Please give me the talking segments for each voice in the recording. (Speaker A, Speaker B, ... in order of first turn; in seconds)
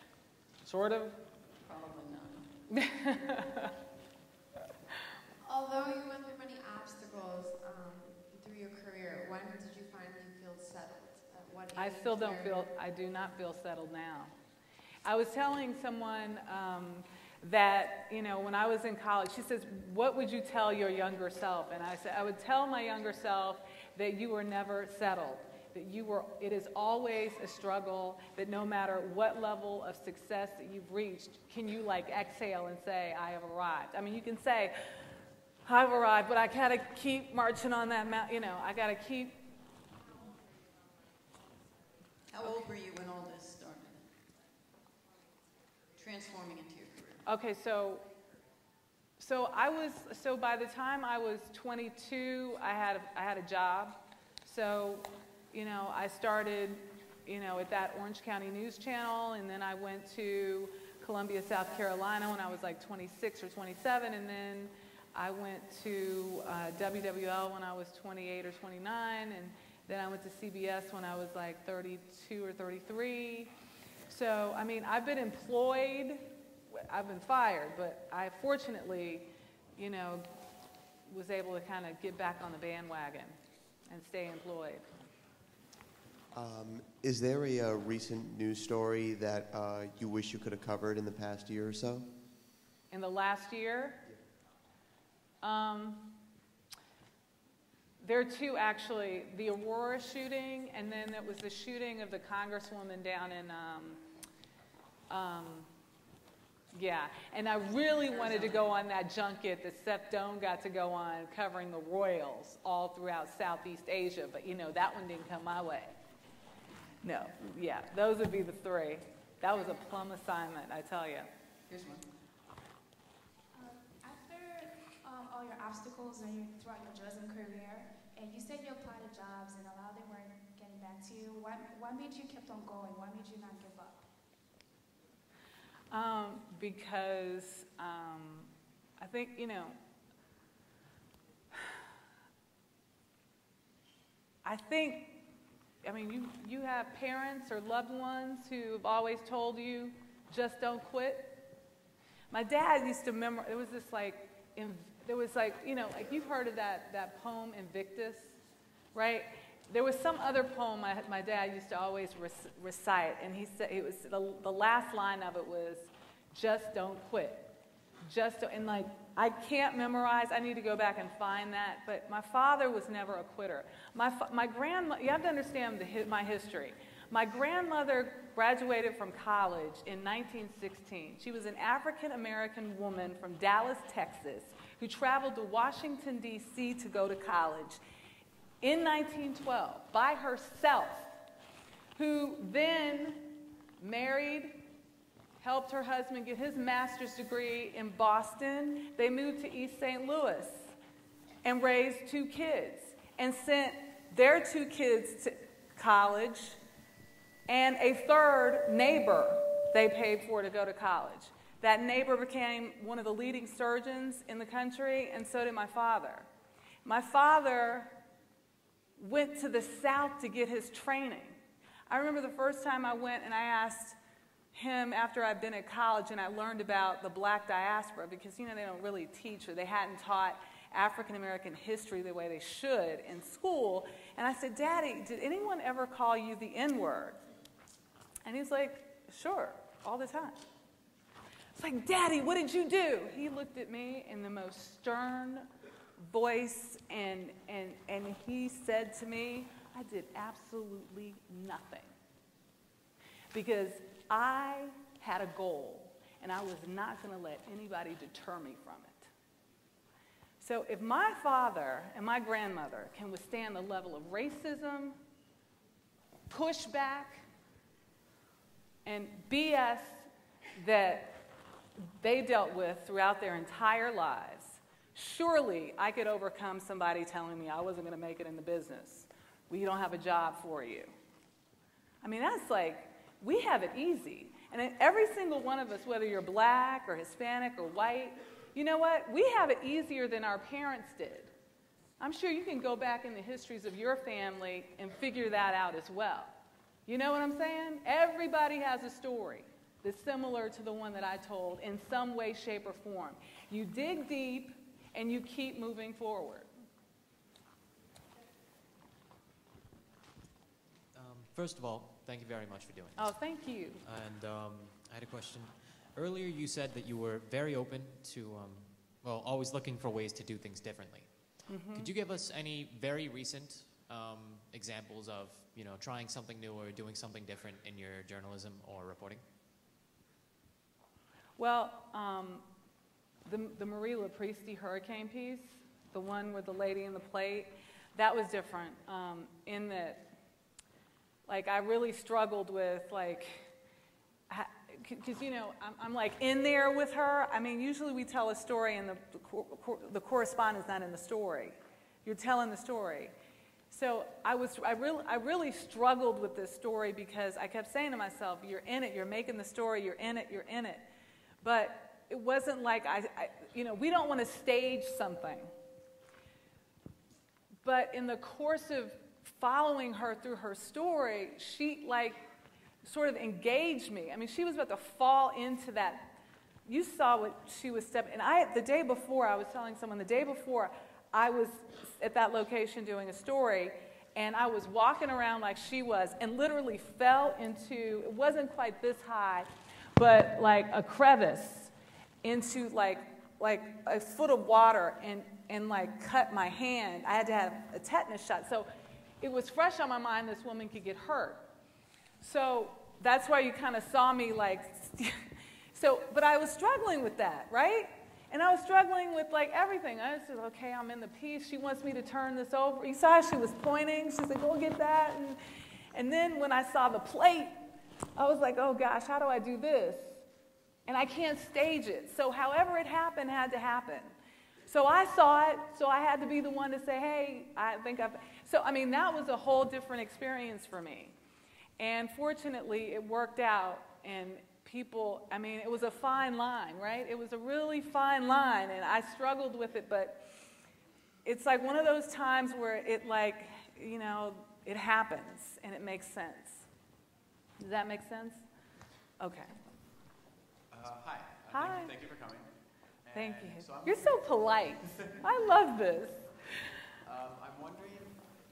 Speaker A: 0.6-3.6, 11.8-14.3, 15.0-34.7, 35.6-39.4, 47.2-48.0, 49.2-73.5, 74.1-76.2, 76.7-80.2, 81.1-83.4, 83.9-84.8, 92.9-94.0, 95.4-96.1, 98.0-104.0, 105.1-105.7, 106.7-115.9, 117.0-121.3, 135.9-139.8, 144.4-145.2, 145.8-151.4, 152.3-158.3, 158.9-167.5, 168.0-187.8, 188.6-191.2, 191.9-194.6, 195.4-200.7, 201.4-206.6, 207.5-216.3, 216.8-217.9, 219.0-221.4, 221.9-224.0, 224.5-237.2, 238.2-240.4, 241.6-245.4, 246.0-251.9, 253.3-259.1, 260.4-265.0, 266.3-267.2, 268.9-271.2, 272.0-280.9, 282.0-291.3, 292.0-296.3, 296.9-306.5, 312.9-313.8, 321.5-321.9, 331.4-332.4, 333.2-340.1, 341.3-343.5, 344.3-353.1, 353.7-360.8, 361.4-365.5, 367.6-372.2, 372.8-391.7, 392.2-398.7, 399.2-401.4, 402.2-405.1, 405.7-415.4, 415.9-417.6, 418.1-420.2, 420.9-424.1, 424.7-431.1, 431.8-440.2, 441.2-446.6, 447.6-448.4, 449.2-449.5, 451.5-451.9, 453.1-456.3
Speaker B: 5.5-11.7
Speaker C: 42.3-44.1, 46.0-47.2, 121.7-122.0
Speaker D: 86.3-92.1
Speaker E: 123.5-134.1
Speaker F: 310.9-313.1, 313.8-329.3
Speaker G: 450.7-452.5, 453.0-455.1, 457.0-458.3